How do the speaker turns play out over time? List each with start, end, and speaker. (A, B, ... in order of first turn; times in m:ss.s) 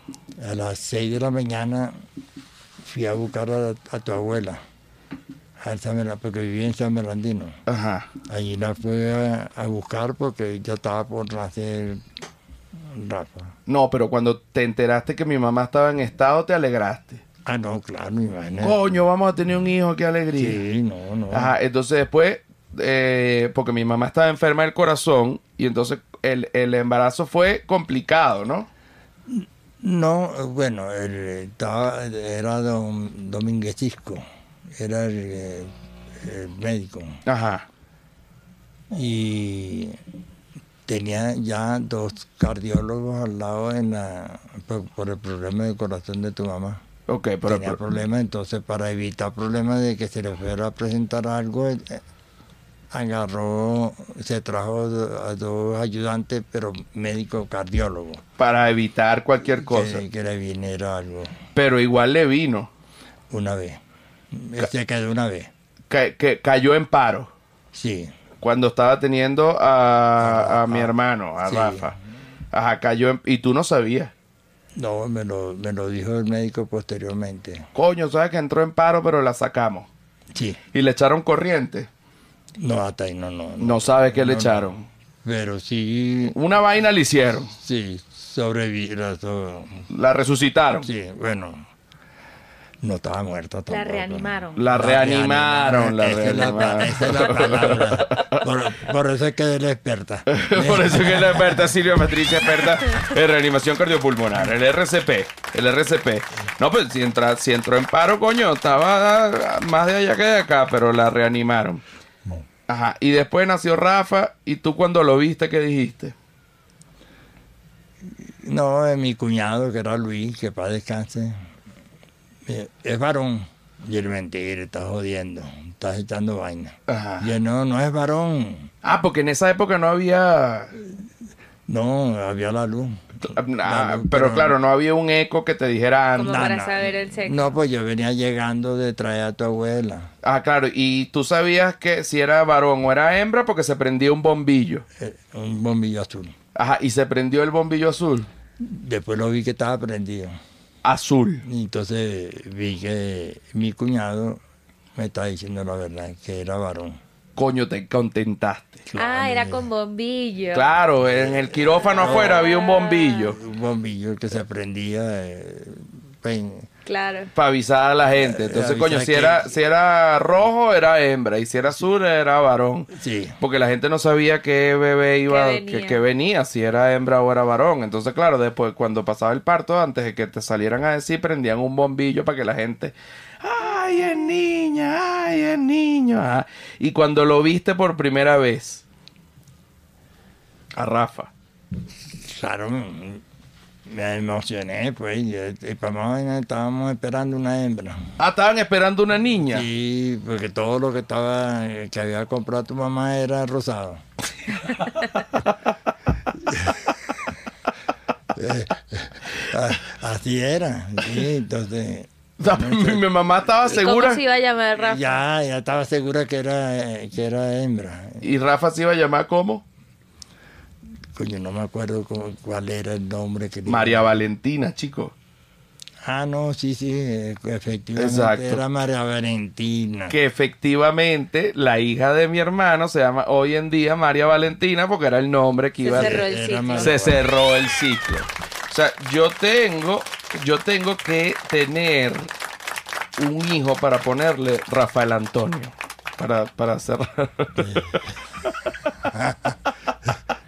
0:00.4-0:02.0 A
0:02.8-0:04.6 A
0:05.6-0:07.6 A
0:07.7-0:08.1 B
0:08.3-0:12.0 A
0:12.8-0:13.5 A
0:13.7-0:17.2 B
0:17.4-0:18.9 A
0:18.6-0:20.6 B
0:20.4-0:21.6 A
0:21.3-0:28.7 B
0:29.3-0:37.2 A
0:37.2-0:37.7 B
0:38.9-0:40.0 A
0:40.9-0:46.8 A
0:47.1-0:47.8 B
0:47.5-0:52.0 A
0:52.9-0:58.2 A
0:58.4-1:00.0 B
0:59.6-1:01.4 A
1:01.6-1:02.7 B
1:03.3-1:03.8 A
1:04.3-1:05.5 A
1:05.9-1:07.3 B
1:07.7-1:08.1 A
1:08.4-1:12.0 B
1:10.2-1:11.9 A
1:12.5-1:14.1 B
1:14.8-1:17.7 A
1:17.8-1:19.9 B
1:20.3-1:20.6 A
1:20.7-1:21.9 B
1:22.6-1:24.7 A
1:23.6-1:24.9 B
1:25.2-1:26.4 A
1:26.3-1:27.5 B
1:27.5-1:29.8 A
1:29.9-1:30.9 B
1:30.8-1:31.7 A
1:32.8-1:41.7 A
1:33.7-1:34.6 C
1:34.6-1:38.4 B
1:40.3-1:51.8 B
1:52.7-1:56.2 B
1:58.2-2:01.4 A
2:02.4-2:08.7 A
2:06.9-2:07.3 B
2:08.8-2:10.8 B
2:11.7-2:14.6 A
2:13.2-2:16.5 B
2:16.2-2:17.5 C
2:16.3-2:20.1 A
2:20.2-2:24.8 B
2:25.0-2:26.4 A
2:26.6-2:28.3 B
2:28.6-2:30.4 A
2:30.8-2:31.4 B
2:31.4-2:34.4 A
2:35.0-2:37.0 A
2:37.4-2:38.8 B
2:38.9-2:39.7 A
2:39.0-2:40.7 C
2:40.5-2:43.4 B
2:41.0-2:42.6 A
2:42.0-2:43.3 C
2:43.3-2:46.7 A
2:46.9-2:47.3 C
2:47.3-2:52.9 B
2:48.2-2:49.6 A
2:52.9-2:53.4 A
2:53.4-3:08.8 B
2:55.3-2:56.0 C
3:10.8-3:11.3 B
3:12.1-3:13.2 A
3:13.9-3:18.0 A
3:18.2-3:19.7 B
3:19.5-3:24.0 A
3:26.5-3:26.8 A
3:28.3-3:33.0 A
3:32.4-3:34.2 B
3:33.6-3:35.2 C
3:34.8-3:38.2 A
3:38.2-3:39.6 B
3:41.2-3:44.1 A
3:43.7-3:45.1 B
3:46.0-3:50.2 A
3:48.0-3:48.6 B
3:50.1-3:56.3 B
3:55.8-3:57.0 C
3:55.9-3:57.2 A
3:56.8-4:02.3 B
4:03.2-4:08.9 B